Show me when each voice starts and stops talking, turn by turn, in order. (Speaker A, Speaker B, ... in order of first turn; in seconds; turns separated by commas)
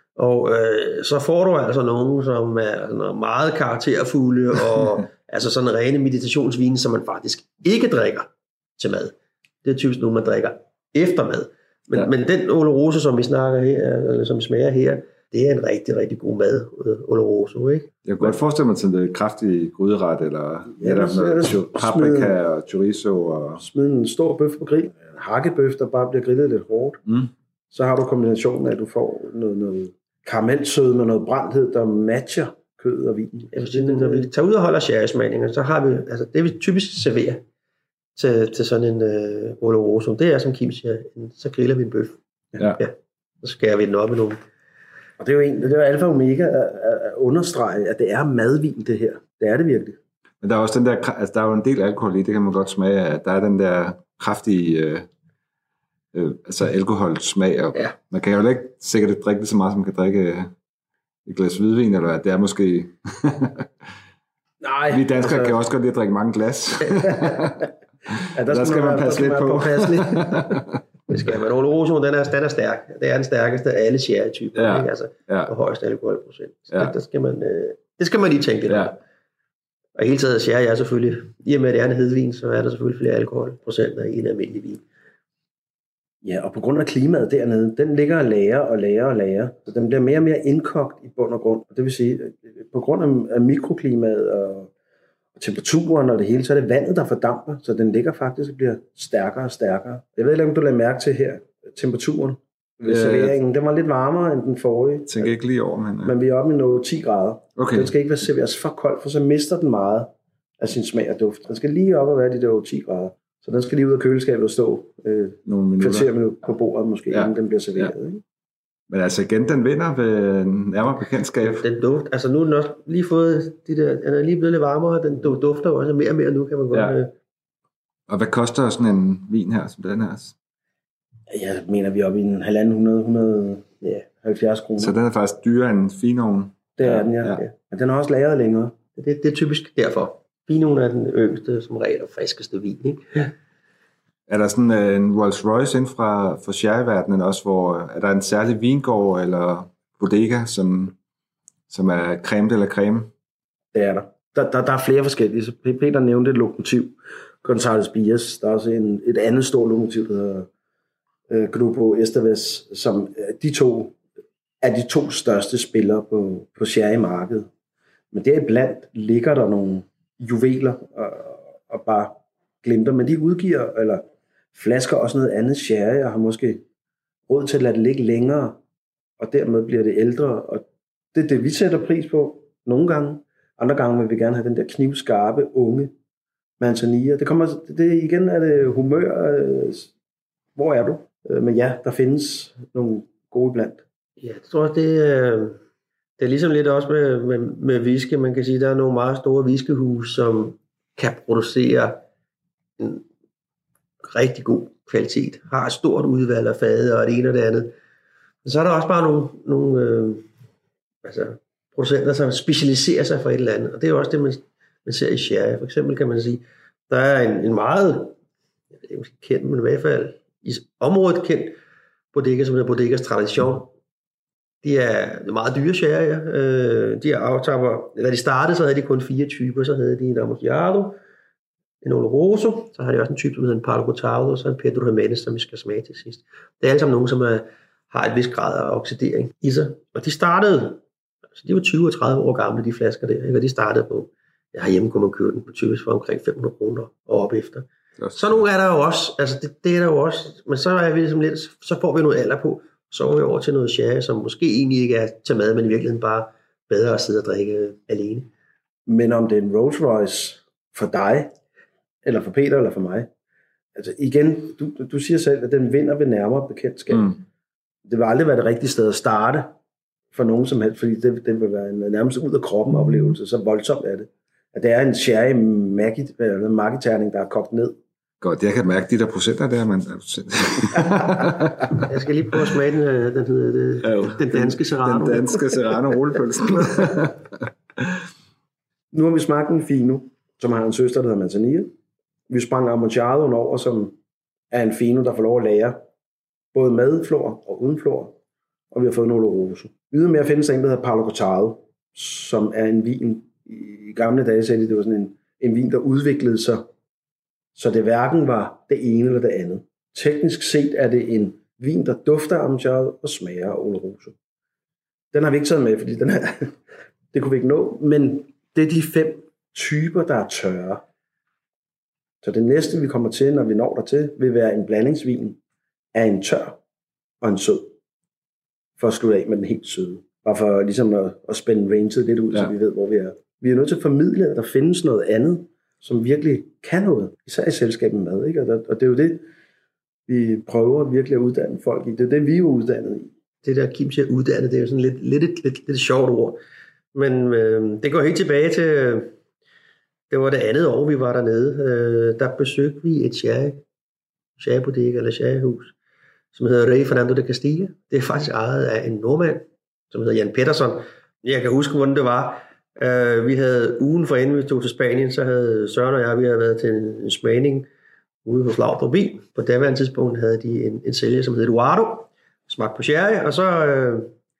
Speaker A: 0.2-18.4, Speaker B: 18.1-23.6, Speaker C: 20.8-22.4, Speaker C: 23.6-27.0, Speaker C: 27.7-34.3, Speaker A: 33.5-37.4, Speaker A: 38.1-42.2, Speaker A: 42.8-44.4, Speaker C: 45.2-50.0, Speaker B: 50.4-55.1, Speaker B: 56.1-60.5, Speaker B: 61.2-63.9, Speaker C: 64.6-65.6, Speaker B: 64.9-67.7, Speaker C: 67.0-67.5, Speaker C: 68.2-70.6, Speaker B: 68.5-70.8, Speaker A: 71.1-79.0, Speaker B: 74.5-75.5, Speaker B: 78.7-78.9, Speaker A: 80.0-84.8, Speaker C: 86.2-94.7, Speaker C: 95.3-105.3, Speaker B: 102.9-103.3, Speaker B: 105.1-106.1, Speaker C: 106.0-118.2, Speaker B: 107.6-107.9, Speaker B: 115.5-116.1, Speaker B: 117.1-117.9, Speaker B: 118.9-121.6, Speaker A: 121.4-127.1, Speaker B: 128.1-130.3, Speaker C: 131.3-134.9, Speaker B: 134.8-137.4, Speaker C: 136.8-138.7, Speaker A: 139.0-143.3, Speaker B: 144.3-150.9, Speaker B: 151.7-153.1, Speaker C: 153.7-160.5, Speaker C: 161.3-164.0, Speaker C: 164.6-167.5, Speaker C: 168.1-176.6, Speaker C: 177.3-178.6, Speaker C: 179.2-185.9, Speaker C: 186.6-189.9, Speaker C: 190.5-193.8, Speaker A: 194.2-195.6, Speaker A: 196.2-202.0, Speaker A: 202.8-203.0, Speaker A: 204.0-207.7, Speaker A: 208.4-210.2, Speaker A: 211.0-218.2, Speaker A: 218.8-221.6, Speaker A: 222.1-223.7, Speaker A: 224.6-231.0, Speaker A: 231.8-240.8, Speaker A: 241.3-258.3, Speaker B: 248.0-248.4, Speaker C: 258.9-261.3, Speaker C: 262.0-263.1, Speaker C: 263.7-267.2, Speaker C: 267.9-269.5, Speaker C: 270.1-277.8, Speaker B: 278.2-281.8, Speaker A: 281.8-285.6, Speaker B: 283.8-287.9, Speaker C: 288.9-291.7, Speaker C: 292.3-293.9, Speaker C: 294.5-295.8, Speaker C: 296.5-298.1, Speaker C: 298.7-306.7, Speaker C: 307.5-314.1, Speaker C: 315.1-316.6, Speaker C: 317.1-320.8, Speaker C: 322.2-325.4, Speaker C: 325.9-326.6, Speaker C: 327.2-327.7, Speaker C: 328.8-339.2, Speaker C: 340.1-343.1, Speaker A: 343.4-346.4, Speaker A: 346.9-349.1, Speaker A: 350.1-353.6, Speaker A: 354.4-355.7, Speaker A: 356.3-367.7, Speaker A: 368.2-374.1